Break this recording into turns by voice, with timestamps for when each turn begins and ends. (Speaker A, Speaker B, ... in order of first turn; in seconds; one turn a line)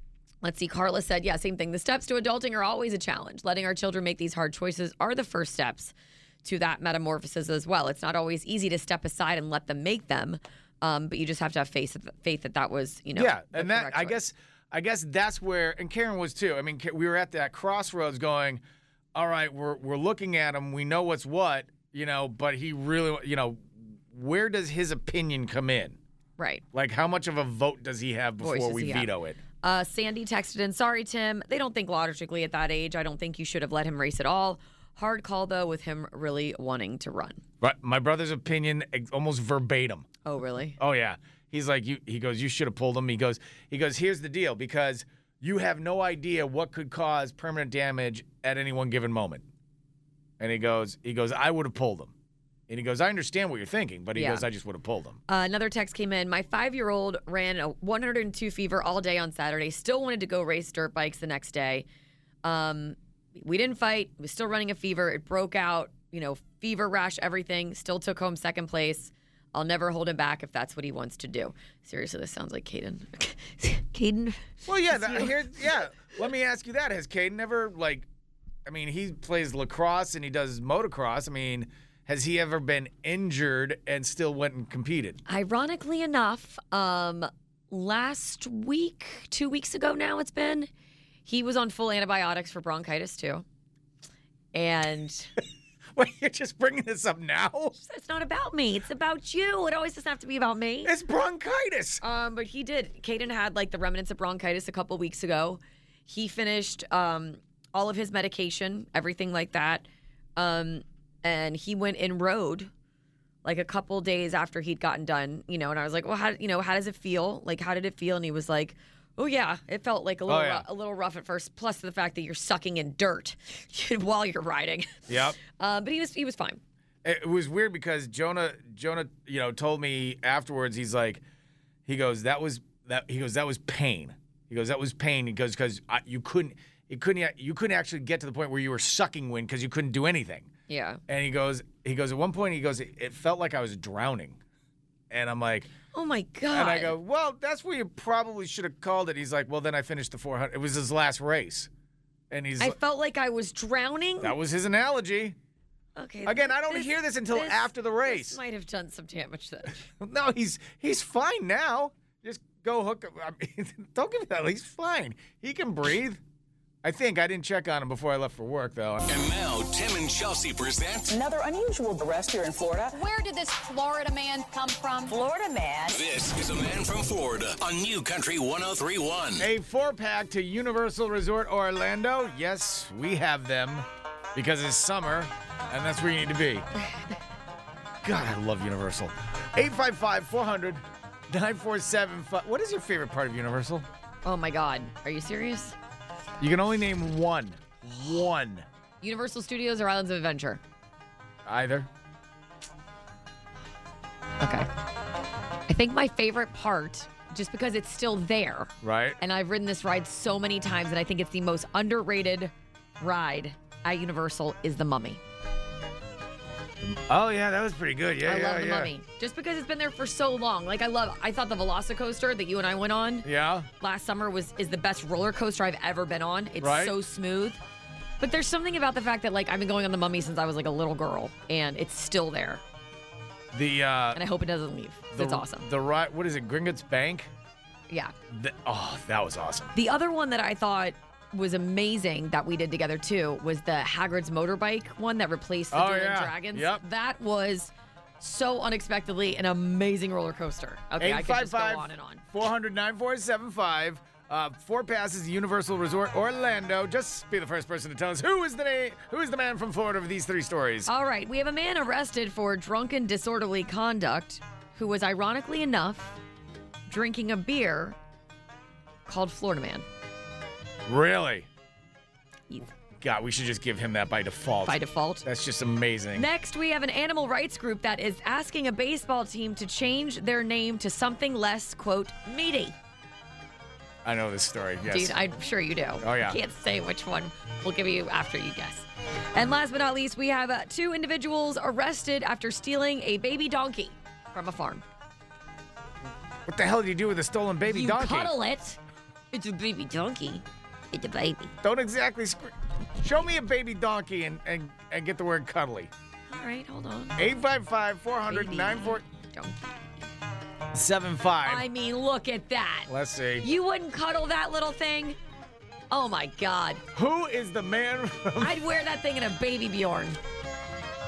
Speaker A: 0.4-5.9
Speaker A: 6.4-14.2
Speaker B: 13.1-18.6
Speaker B: 19.1-26.0
Speaker A: 26.4-26.6
Speaker B: 26.7-29.4
Speaker A: 28.4-29.1
Speaker A: 29.6-37.4
Speaker B: 37.6-40.1
Speaker A: 40.2-40.8
Speaker B: 40.8-49.4
Speaker B: 50.4-52.1
Speaker B: 52.7-55.2
Speaker A: 54.1-54.4
Speaker A: 55.3-61.8
Speaker A: 62.4-75.5
Speaker B: 74.7-78.1
Speaker B: 78.7-85.2
Speaker A: 85.3-90.7
Speaker A: 91.2-93.4
Speaker A: 94.5-95.3
Speaker B: 95.9-97.7
Speaker A: 97.8-100.9
Speaker B: 100.8-102.0
Speaker A: 102.0-109.8
Speaker A: 110.3-112.7
Speaker A: 113.4-126.6
Speaker B: 120.3-120.7
Speaker B: 125.1-125.4
Speaker B: 127.0-131.2
Speaker B: 131.8-140.5
Speaker A: 140.7-141.0
Speaker B: 141.1-144.4
Speaker B: 145.1-145.7
Speaker A: 145.9-146.9
Speaker B: 146.5-151.7
Speaker B: 152.3-152.8
Speaker A: 152.6-154.3
Speaker B: 154.2-155.4
Speaker A: 155.9-159.9
Speaker B: 156.2-158.4
Speaker B: 160.0-166.2
Speaker B: 166.8-169.0
Speaker C: 169.1-171.2
Speaker D: 171.1-173.0
Speaker E: 172.9-175.2
Speaker D: 175.1-176.0
Speaker C: 175.9-179.5
Speaker B: 179.4-186.7
Speaker B: 188.0-193.9
Speaker A: 194.2-195.7
Speaker B: 196.4-198.7
Speaker A: 199.0-200.6
Speaker B: 201.4-201.9
Speaker A: 204.4-204.7
Speaker A: 205.7-215.2
Speaker B: 208.8-209.2
Speaker B: 216.8-218.9
Speaker A: 218.2-223.3
Speaker B: 223.2-223.7
Speaker A: 223.8-227.6
Speaker B: 226.6-226.9
Speaker A: 228.2-232.6
Speaker B: 233.5-234.2
Speaker A: 234.1-235.7
Speaker B: 235.1-237.3
Speaker A: 237.9-238.1
Speaker B: 238.3-239.7
Speaker A: 239.7-252.2
Speaker B: 245.7-246.8
Speaker B: 251.0-260.9
Speaker A: 260.9-266.2
Speaker A: 266.9-268.0
Speaker A: 269.1-269.8
Speaker B: 270.9-271.5
Speaker B: 273.0-276.3
Speaker A: 274.6-275.2
Speaker A: 276.1-282.8
Speaker B: 284.0-285.2
Speaker A: 284.9-294.8
Speaker B: 286.0-286.4
Speaker B: 296.4-298.3
Speaker A: 297.6-298.8
Speaker A: 299.3-301.5
Speaker B: 301.6-305.9
Speaker A: 306.3-307.3
Speaker B: 307.2-309.0
Speaker A: 308.3-309.9
Speaker B: 310.7-311.6
Speaker A: 311.4-312.9
Speaker B: 312.9-313.5
Speaker A: 313.4-315.2
Speaker A: 315.9-316.8
Speaker B: 316.9-318.6
Speaker A: 318.4-320.2